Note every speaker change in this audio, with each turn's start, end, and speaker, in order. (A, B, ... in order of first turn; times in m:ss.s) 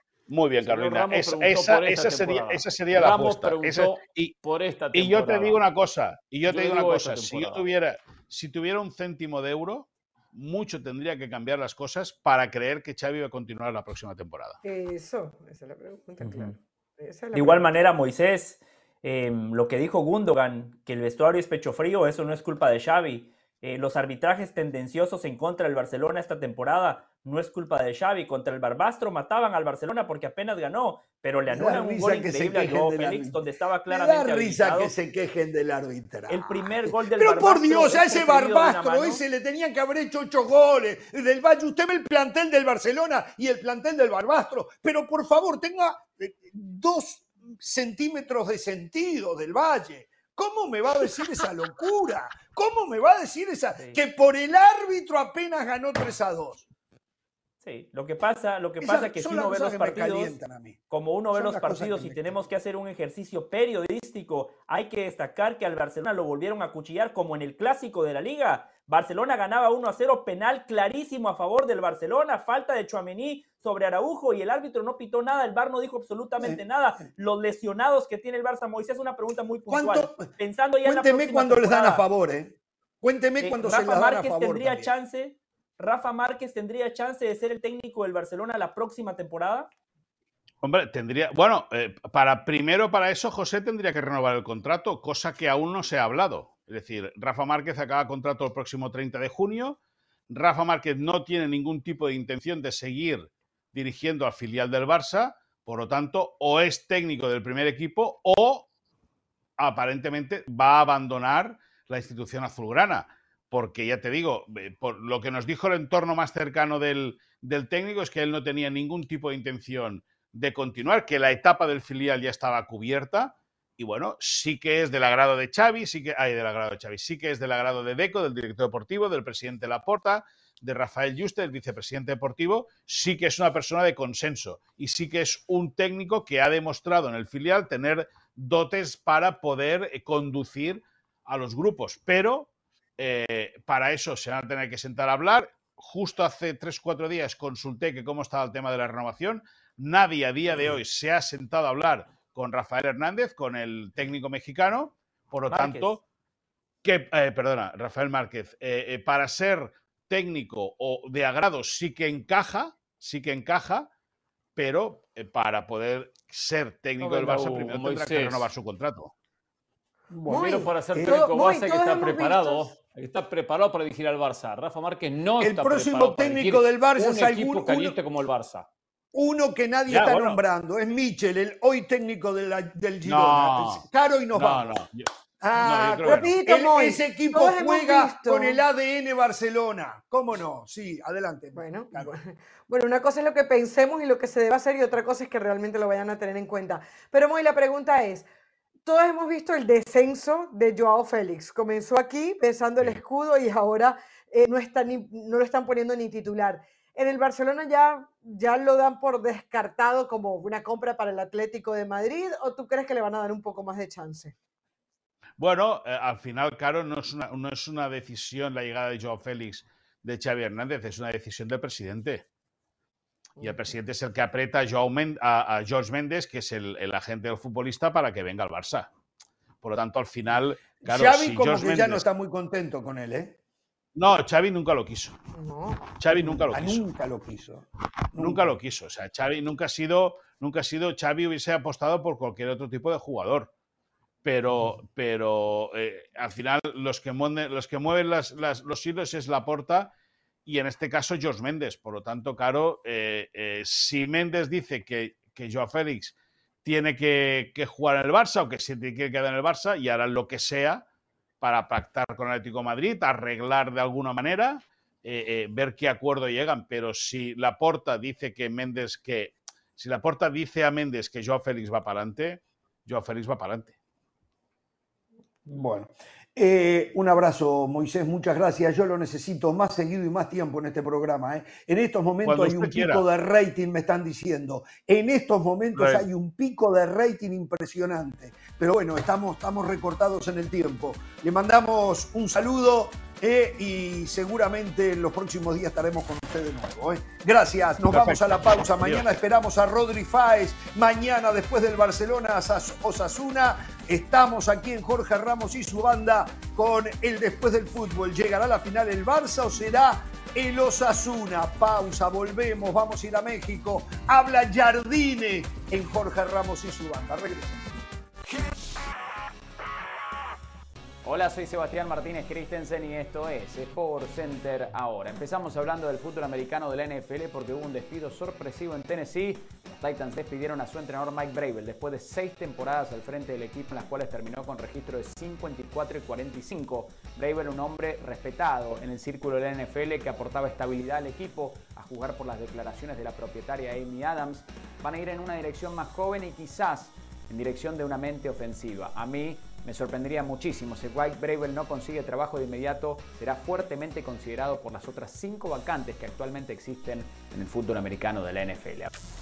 0:00.3-0:04.4 A
0:00.6-0:05.6 B
0:04.9-0:14.6 A
0:06.5-0:07.6 B
0:14.6-0:17.6 C
0:17.3-0:34.9 D
0:31.5-0:56.6 E
0:36.3-0:39.2 D
0:57.6-1:00.4 D
0:58.8-1:00.8 E
1:00.9-1:22.0 D
1:01.3-1:02.4 E
1:16.4-1:17.0 E
1:19.7-1:20.3 E
1:20.8-1:24.9 E
1:23.4-1:29.7 D
1:30.6-1:39.8 A
1:40.3-1:48.7 A
1:49.6-2:36.0 A
2:35.5-2:35.9 D
2:36.8-2:43.9 A
2:44.6-2:49.1 A
2:47.0-2:48.5 B
2:50.1-2:51.2 E
2:50.3-2:52.7 C
2:50.3-2:58.7 B
2:55.4-2:58.0 E
2:59.1-3:04.7 E
2:59.9-3:00.3 A
3:03.0-3:06.3 A
3:05.4-3:12.2 E
3:06.0-3:08.6 C
3:11.5-3:18.3 C
3:18.9-3:34.4 C
3:35.4-3:42.2 A
3:43.4-3:48.9 A
3:49.6-3:52.0 A
3:50.8-3:53.4 E
3:53.9-3:55.2 A
3:55.4-3:55.8 C
3:56.0-3:56.8 A
3:56.1-3:58.5 E
3:58.2-4:03.5 A
4:04.2-4:09.9 A
4:10.4-4:20.8 A
4:21.4-4:33.7 A
4:35.4-5:17.6 E
4:42.2-4:43.0 A
4:57.8-4:59.1 A
5:21.0-5:58.9 F